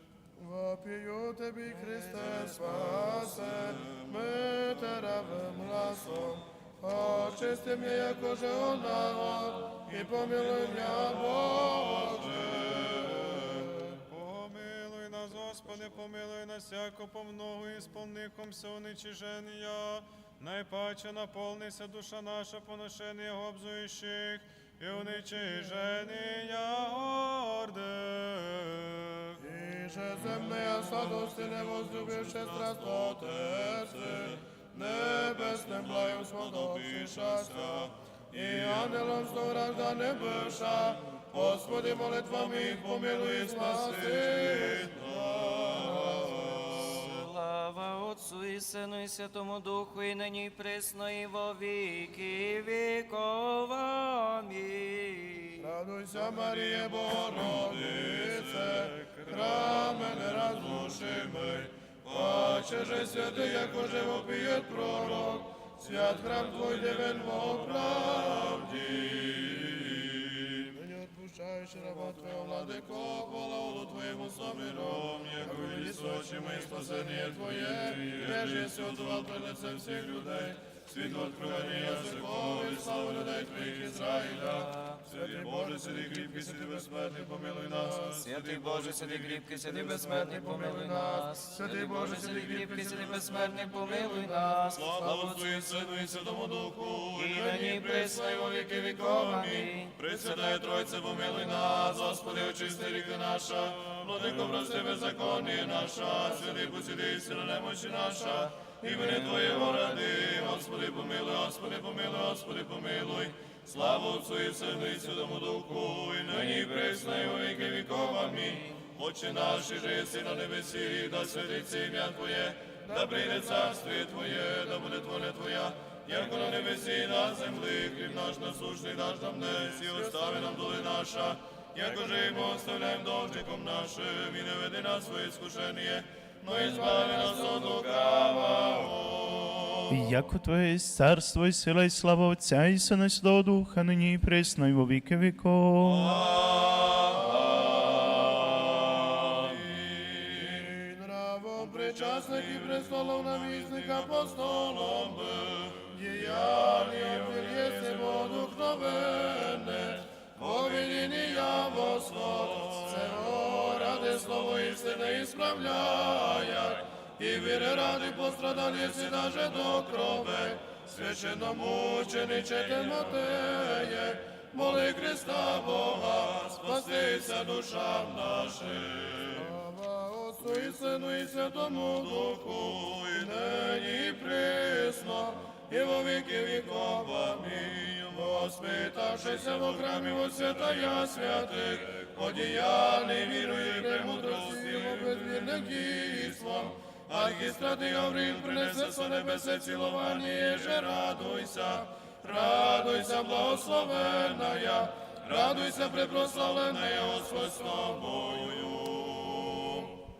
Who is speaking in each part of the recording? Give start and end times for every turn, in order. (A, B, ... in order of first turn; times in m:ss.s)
0:00.4-0:13.7 A
0:02.2-0:04.0 B
0:14.1-0:29.4 C
0:29.4-0:44.9 A
0:35.9-0:37.5 B
0:43.5-0:47.0 B
0:46.9-0:55.6 D
0:55.6-1:08.7 A
0:56.3-0:59.6 B
1:00.9-1:04.2 B
1:08.5-1:10.5 B
1:10.7-1:20.6 A
1:14.0-1:17.3 B
1:17.9-1:19.0 B
1:20.9-1:24.4 B
1:21.1-1:28.2 A
1:25.1-1:27.3 B
1:27.9-1:29.5 B
1:28.2-1:34.9 D
1:29.7-1:33.3 A
1:33.9-1:35.5 A
1:34.7-1:39.0 B
1:37.1-1:39.9 D
1:39.9-2:20.0 B
2:19.9-2:26.2 E
2:25.8-2:30.6 B
2:30.3-2:35.1 A
2:31.8-2:35.8 B
2:35.9-2:55.9 A
2:42.5-2:42.9 B
2:54.6-2:59.5 B
2:56.5-2:57.0 A
2:59.3-3:02.5 A
3:02.3-3:03.4 B
3:03.1-3:07.1 A
3:05.7-3:15.3 B
3:09.0-3:28.0 A
3:17.1-3:18.4 B
3:19.1-3:24.1 B
3:25.2-3:29.9 B